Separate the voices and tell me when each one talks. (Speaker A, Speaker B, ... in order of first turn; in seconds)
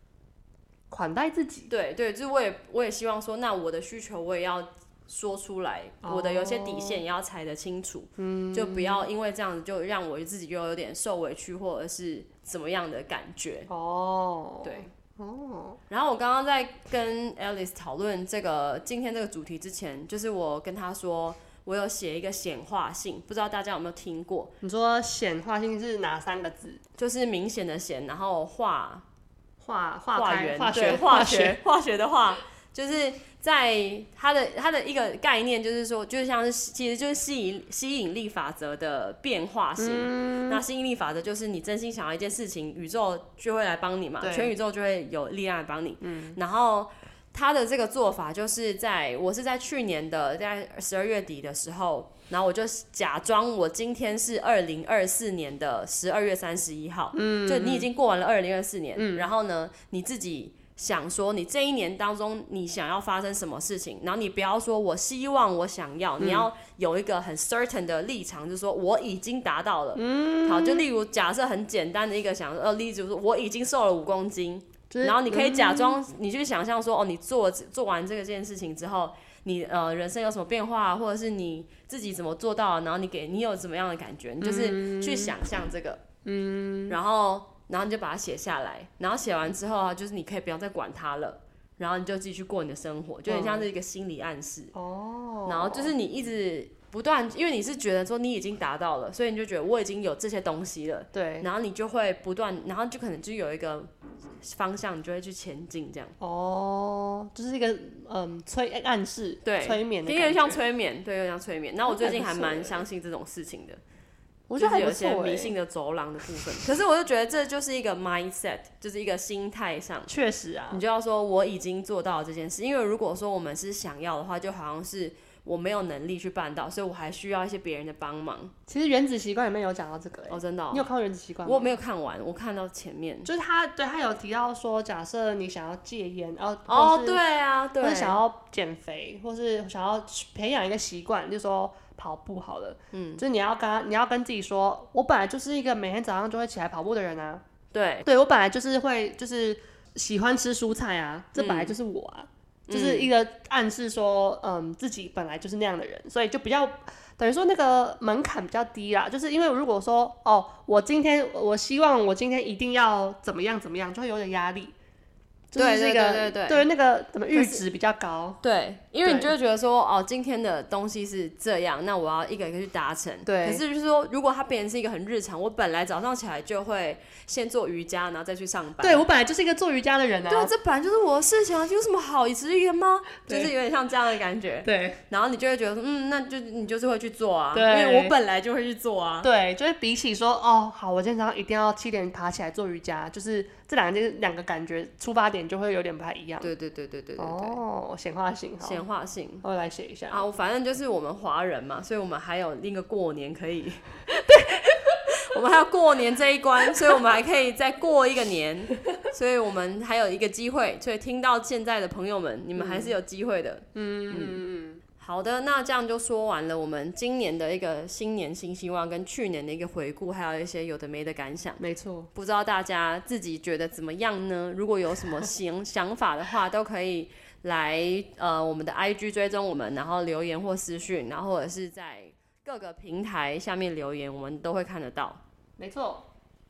Speaker A: 0.9-1.7, 6.0-7.0, 8.2-9.1, 13.7-15.8, 24.6-26.8, 29.6-31.6, 39.8-40.6, 44.2-44.5, 46.0-46.4, 57.1-57.9, 58.9-59.3, 66.2-66.5, 69.9-70.9, 74.9-76.0, 84.4-85.4, 86.2-87.0, 93.3-93.7, 94.7-95.9, 101.1-101.5, 106.2-110.6, 111.9-112.8, 114.5-115.5, 120.1-120.8, 128.7-131.7, 133.2-137.2, 137.8-147.4, 148.0-164.7, 165.5-168.4, 169.0-169.3, 173.2-173.6, 178.8-180.5, 183.3-183.5, 184.6-185.0, 187.5-188.1, 189.2-196.5, 197.2-198.8, 199.4-200.2, 212.6-212.9, 213.7-214.8, 221.6-222.1, 235.6-236.1
Speaker B: 1.7-13.7, 14.6-14.9, 15.9-24.5, 27.0-29.0, 30.1-86.0, 86.9-94.7, 95.5-106.1, 109.4-113.8, 114.6-120.1, 120.7-128.5, 130.3-130.9, 131.4-133.3, 136.7-138.2, 142.9-143.2, 147.7-148.1, 151.4-151.8, 152.7-153.1, 165.6-166.6, 167.3-167.6, 168.4-179.0, 180.3-189.3, 196.4-197.6, 198.6-199.4, 200.1-203.9, 204.7-214.4, 215.0-221.6, 222.1-235.2